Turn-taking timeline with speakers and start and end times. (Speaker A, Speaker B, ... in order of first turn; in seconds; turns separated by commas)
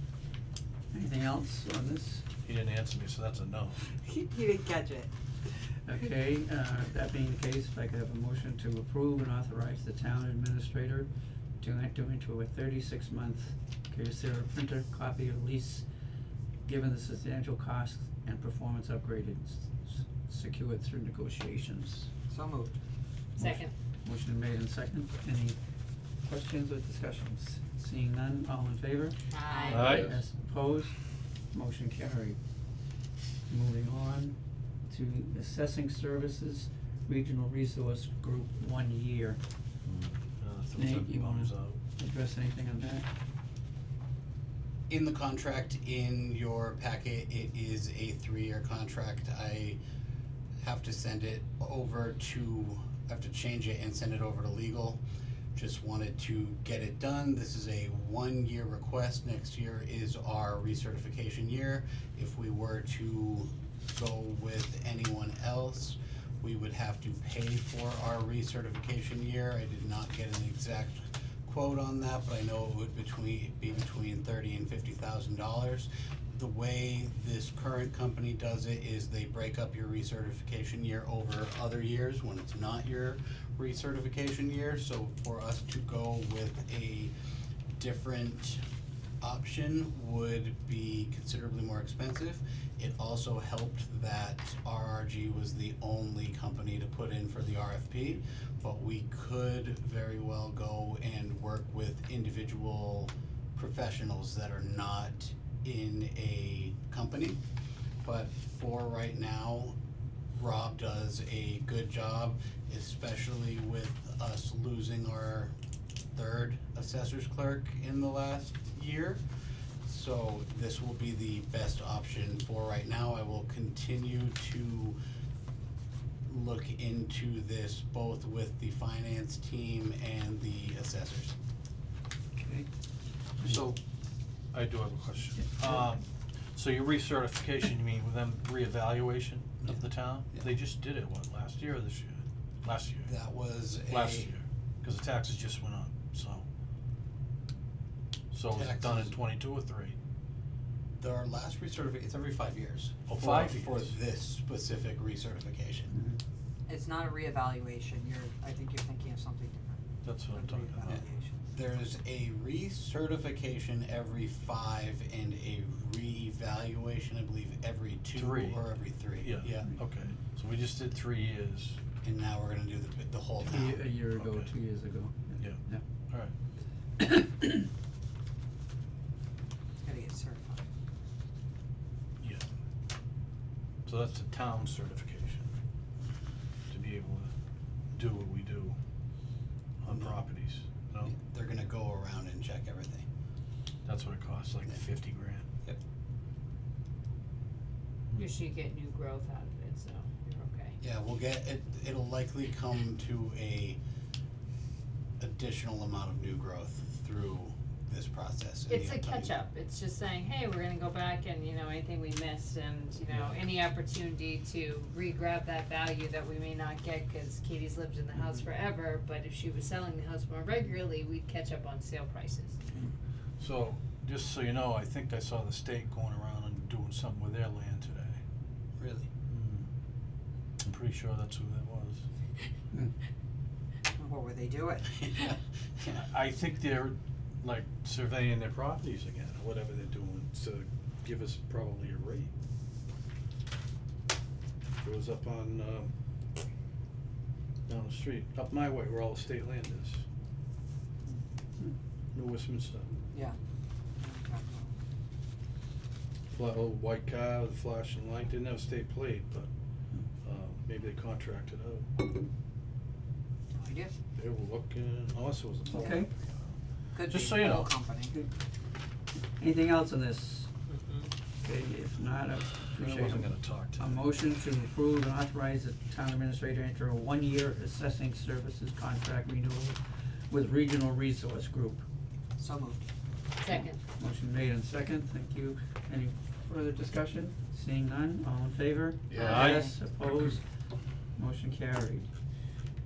Speaker A: 0.9-2.2, Speaker B: 2.4-3.8, Speaker C: 3.8-5.1, Speaker A: 5.8-11.1, Speaker A: 11.6-15.8, Speaker A: 16.6-22.1, Speaker C: 22.3-22.7, Speaker D: 23.4-23.7, Speaker A: 23.4-25.6, Speaker A: 26.2-31.0, Speaker D: 29.3-29.9, Speaker B: 29.7-30.1, Speaker A: 31.5-32.4, Speaker A: 33.5-39.4, Speaker B: 39.9-41.8, Speaker A: 40.8-43.1, Speaker E: 44.9-49.8, Speaker E: 50.6-55.0, Speaker E: 55.5-87.1, Speaker E: 87.8-88.6, Speaker E: 89.2-107.4, Speaker E: 108.0-109.8, Speaker E: 110.3-115.5, Speaker E: 116.1-119.2, Speaker E: 119.8-125.0, Speaker E: 126.3-131.3, Speaker A: 132.3-132.7, Speaker B: 133.4-133.8, Speaker B: 134.5-143.1, Speaker E: 139.6-140.5, Speaker E: 143.1-144.3, Speaker B: 143.9-146.4, Speaker B: 148.3-149.9, Speaker E: 148.5-149.2, Speaker E: 151.0-155.9, Speaker B: 153.1-153.9, Speaker A: 155.9-156.2, Speaker C: 156.7-161.4, Speaker B: 160.0-160.9, Speaker E: 160.9-169.7, Speaker B: 168.1-168.6, Speaker B: 169.2-171.8, Speaker E: 172.0-173.8, Speaker A: 173.4-175.8, Speaker B: 174.1-174.5, Speaker A: 177.0-177.7, Speaker C: 179.8-180.7, Speaker B: 182.2-182.4, Speaker B: 183.8-185.5, Speaker B: 186.7-187.3, Speaker B: 187.9-188.8, Speaker B: 189.8-191.1, Speaker E: 189.9-190.2, Speaker E: 191.0-193.1, Speaker B: 193.8-195.4, Speaker D: 198.2-200.8, Speaker E: 200.8-203.8, Speaker E: 205.2-209.3, Speaker D: 208.7-222.7, Speaker B: 223.4-228.2, Speaker E: 228.8-229.1, Speaker B: 229.3-229.7, Speaker B: 230.6-232.0, Speaker C: 233.9-235.0, Speaker E: 234.9-236.0, Speaker B: 235.9-242.3, Speaker B: 244.8-245.9, Speaker B: 247.7-250.0, Speaker B: 252.1-252.9, Speaker C: 254.0-254.7, Speaker B: 256.3-259.5, Speaker B: 260.2-261.9, Speaker C: 263.5-263.9, Speaker B: 264.1-266.5, Speaker A: 265.7-266.1, Speaker C: 266.9-268.1, Speaker B: 267.1-267.7, Speaker A: 269.4-270.5, Speaker D: 270.7-271.1, Speaker A: 271.4-279.8, Speaker B: 272.8-273.9, Speaker A: 280.3-281.8, Speaker C: 282.4-282.9, Speaker D: 283.4-283.8, Speaker A: 283.5-290.4, Speaker C: 289.1-289.7, Speaker B: 289.1-289.7, Speaker A: 291.1-292.1